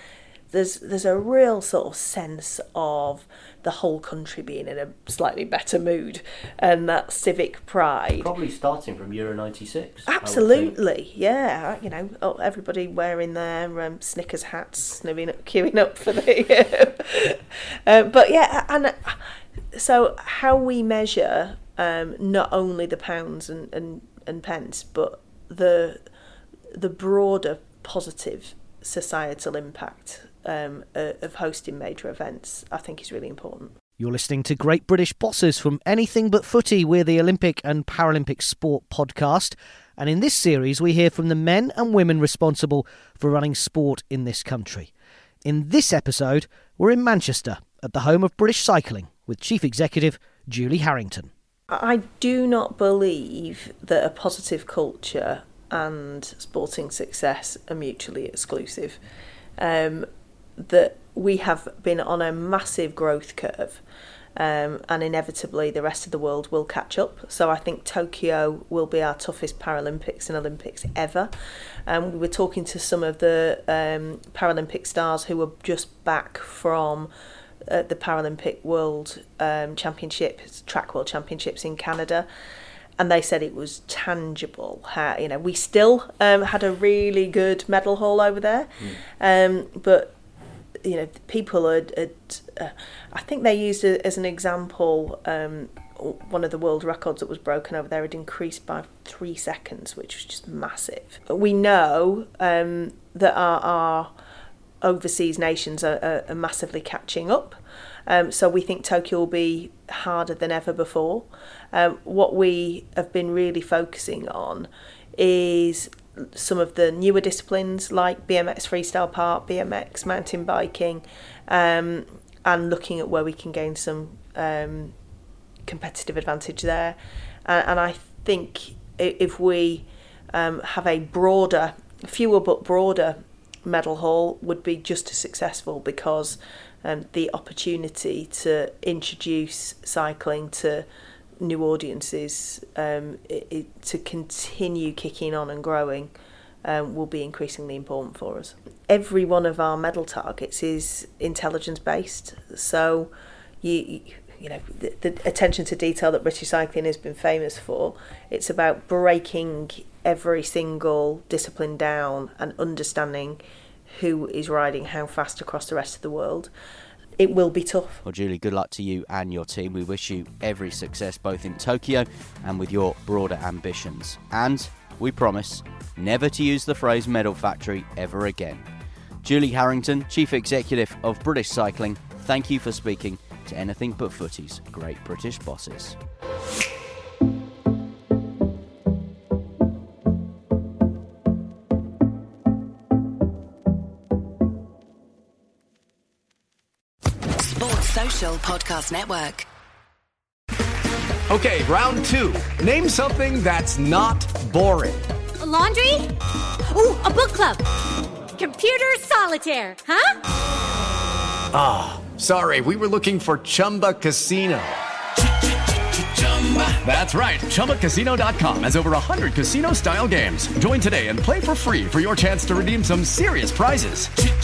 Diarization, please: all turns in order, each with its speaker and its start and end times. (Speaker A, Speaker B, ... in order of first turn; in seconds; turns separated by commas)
Speaker A: 0.5-8.3, Speaker B: 8.2-10.7, Speaker A: 10.1-26.0, Speaker A: 26.7-33.7, Speaker C: 34.0-44.9, Speaker C: 45.4-51.3, Speaker A: 51.7-59.0, Speaker A: 59.6-63.8, Speaker A: 64.3-71.3, Speaker A: 71.9-77.1, Speaker A: 77.7-82.3, Speaker A: 83.0-90.1, Speaker A: 90.8-104.1, Speaker A: 104.8-124.9, Speaker A: 125.7-140.8, Speaker A: 141.4-146.1, Speaker A: 146.6-153.1, Speaker A: 153.6-163.4, Speaker A: 163.9-166.5, Speaker A: 167.2-168.0, Speaker D: 168.0-178.6, Speaker D: 179.2-186.0, Speaker E: 197.4-199.4, Speaker F: 201.3-205.0, Speaker G: 205.4-206.1, Speaker G: 206.7-207.6, Speaker G: 208.4-210.2, Speaker F: 211.5-214.8, Speaker F: 216.1-224.1